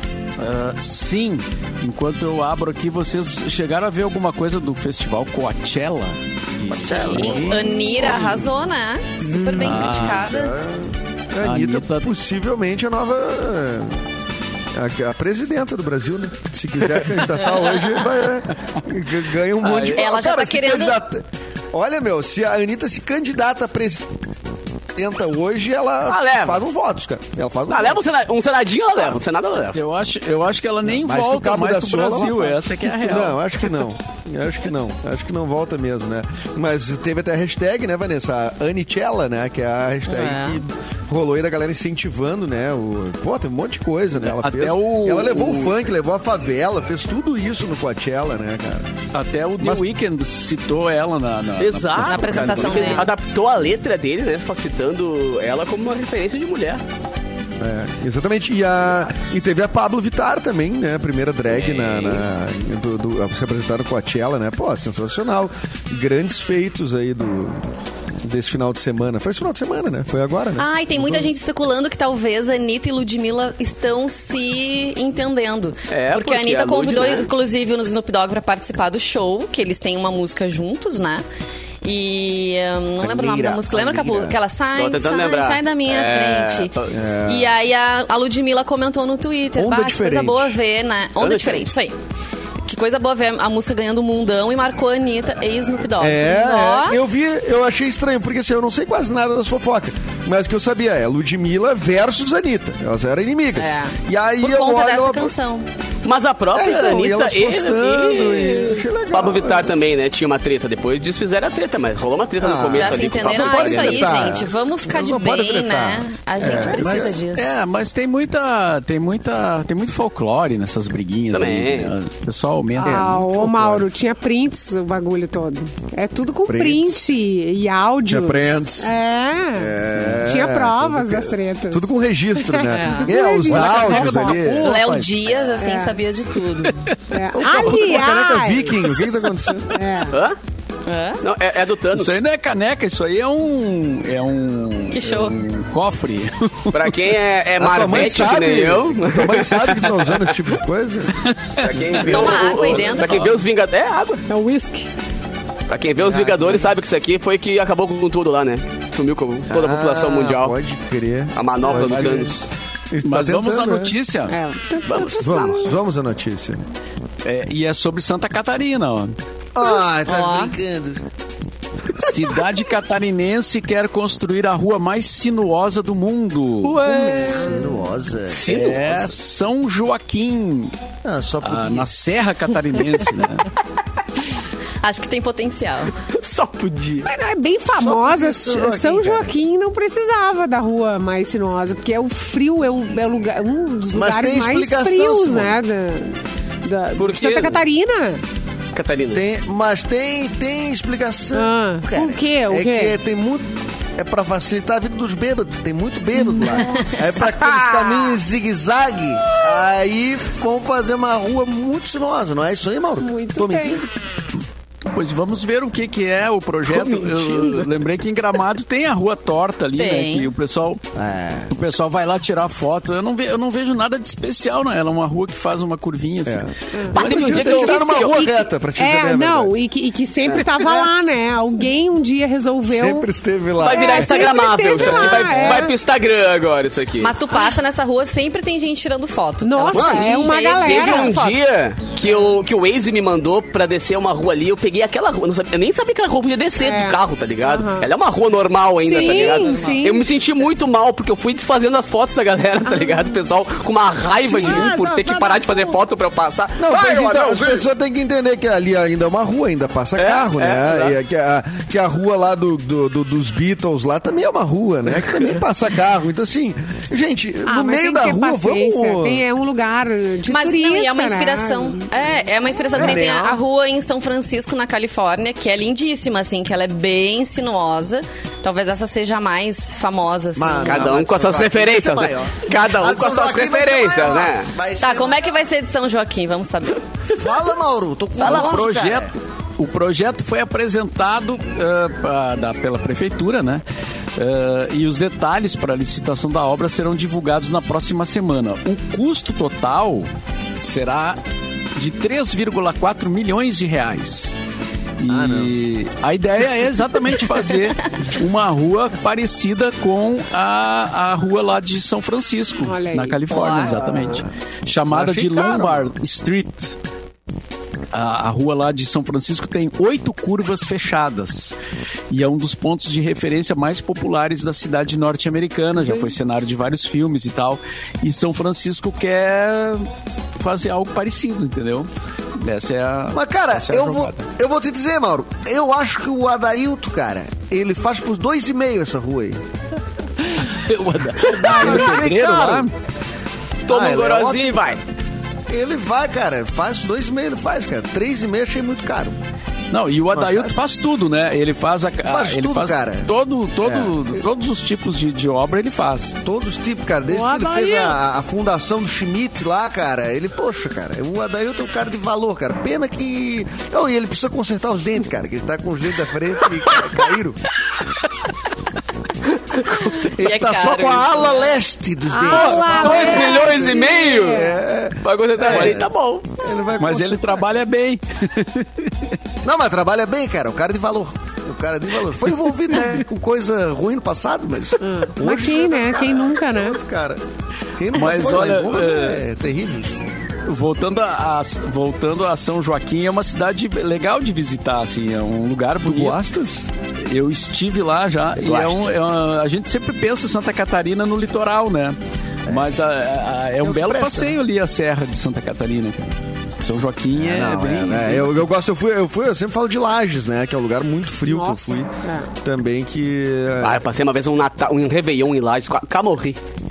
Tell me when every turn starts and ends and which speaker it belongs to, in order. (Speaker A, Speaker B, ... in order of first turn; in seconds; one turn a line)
Speaker A: 0.4-8.4
Speaker B: 6.7-8.4
Speaker C: 6.7-10.5
Speaker A: 9.5-10.3
Speaker B: 9.6-14.0
Speaker A: 11.4-12.1
Speaker B: 14.7-24.1
Speaker A: 19.6-20.0
Speaker C: 19.9-21.0
Speaker B: 24.9-28.0
Speaker D: 26.1-26.6
Speaker D: 27.7-29.8
Speaker A: 29.7-33.4
Speaker B: 30.8-48.9
Speaker C: 40.1-40.6
Speaker A: 44.2-45.7
Speaker A: 49.1-52.9
Speaker B: 49.6-49.9
Speaker D: 51.6-56.8
Speaker C: 52.0-53.1
Speaker B: 52.3-53.0
Speaker B: 57.6-67.6
Speaker D: 61.5-62.2
Speaker B: 68.2-71.3
Speaker C: 70.6-81.2
Speaker D: 75.9-77.3
Speaker C: 81.8-86.7
Speaker B: 83.0-84.4
Speaker D: 84.8-87.0
Speaker B: 86.9-87.5
Speaker C: 87.2-91.9
Speaker B: 89.5-90.6
Speaker D: 91.2-91.7
Speaker C: 92.6-97.0
Speaker B: 96.0-105.3
Speaker C: 103.5-105.7
Speaker D: 106.0-114.4
Speaker B: 106.5-109.7
Speaker B: 112.4-117.2
Speaker C: 112.7-117.6
Speaker A: 116.5-123.4
Speaker D: 121.3-121.9
Speaker E: 122.8-134.3
Speaker B: 122.8-123.8
Speaker B: 126.5-127.1
Speaker B: 128.1-128.9
Speaker B: 129.6-134.7
Speaker C: 132.7-133.1
Speaker A: 133.3-135.2
Speaker C: 134.4-136.9
Speaker E: 135.6-136.0
Speaker A: 136.6-137.0
Speaker E: 137.1-139.1
Speaker B: 137.3-139.8
Speaker E: 139.7-140.2
Speaker D: 140.1-140.4
Speaker C: 140.8-141.2
Speaker D: 141.2-142.2
Speaker A: 141.9-147.0
Speaker C: 144.9-145.4
Speaker D: 146.7-150.4
Speaker B: 147.6-151.2
Speaker A: 151.2-153.3
Speaker D: 151.6-154.2
Speaker C: 152.0-153.3
Speaker E: 154.3-154.9
Speaker D: 155.7-160.5
Speaker B: 156.0-156.7
Speaker B: 159.5-162.3
Speaker D: 161.3-162.5
Speaker A: 161.7-162.3
Speaker B: 162.9-163.9
Speaker A: 163.0-164.4
Speaker E: 164.3-165.8
Speaker D: 164.8-165.7
Speaker B: 165.2-166.6
Speaker A: 167.2-169.1
Speaker B: 169.5-171.0
Speaker C: 170.0-170.6
Speaker A: 171.9-177.5
Speaker D: 176.6-177.5
Speaker B: 177.4-178.4
Speaker D: 178.3-179.1
Speaker A: 178.4-180.7
Speaker B: 181.0-181.9
Speaker A: 181.4-183.5
Speaker C: 184.8-185.9
Speaker D: 186.0-187.1
Speaker E: 187.0-198.2
Speaker B: 187.7-189.3
Speaker B: 193.9-195.6
Speaker D: 196.9-197.6
Speaker D: 198.7-199.2
Speaker B: 199.1-213.9
Speaker E: 201.3-202.9
Speaker E: 206.1-206.9
Speaker E: 213.0-213.8
Speaker A: 214.9-220.8
Speaker D: 216.7-217.7
Speaker C: 219.8-220.3
Speaker B: 220.9-221.5
Speaker A: 221.5-227.4
Speaker B: 226.2-229.5
Speaker E: 226.7-233.1
Speaker D: 226.9-228.3
Speaker D: 230.2-230.9
Speaker B: 232.7-234.3
Speaker D: 233.6-237.1
Speaker E: 233.6-235.8
Speaker C: 237.0-241.4
Speaker E: 239.4-241.2
Speaker D: 239.7-257.7
Speaker E: 246.6-247.9
Speaker E: 248.8-250.1
Speaker E: 252.7-253.2
Speaker B: 254.2-254.7
Speaker E: 254.2-255.8
Speaker B: 256.6-269.2
Speaker D: 260.0-260.9
Speaker D: 264.9-265.4
Speaker E: 267.4-271.9
Speaker C: 270.2-280.9
Speaker B: 272.7-273.4
Speaker B: 280.4-285.3
Speaker D: 280.6-284.5
Speaker C: 284.8-286.8
Speaker B: 287.1-289.1
Speaker C: 288.2-288.6
Speaker A: 288.2-293.6
Speaker A: 294.1-300.1
Speaker A: 300.6-301.2
Speaker A: 301.8-304.4
Speaker A: 305.0-316.7
Speaker B: 305.1-305.5
Speaker E: 312.6-313.7
Speaker C: 313.3-313.8
Speaker B: 314.9-315.9
Speaker A: 317.9-321.6
Speaker A: 322.1-334.2
Speaker B: 333.1-339.4
Speaker A: 340.2-342.7
Speaker B: 341.4-342.7
Speaker D: 343.6-344.8
Speaker B: 343.7-344.8
Speaker B: 345.5-349.2
Speaker A: 349.7-356.1
Speaker B: 350.1-350.6
Speaker B: 352.0-353.9
Speaker B: 356.2-367.4
Speaker E: 357.1-357.9
Speaker D: 369.6-370.1
Speaker C: 369.7-371.5
Speaker B: 370.1-377.5
Speaker E: 372.1-374.6
Speaker D: 372.2-374.5
Speaker D: 375.0-376.3
Speaker A: 376.8-379.1
Speaker B: 379.4-387.2
Speaker E: 384.8-386.8
Speaker B: 387.8-390.0
Speaker A: 387.9-389.2
Speaker A: 390.4-396.2
Speaker B: 395.8-396.7
Speaker A: 397.0-408.4
Speaker D: 398.4-398.8
Speaker B: 403.6-404.4
Speaker B: 407.1-413.8
Speaker E: 411.3-412.3
Speaker D: 413.6-416.4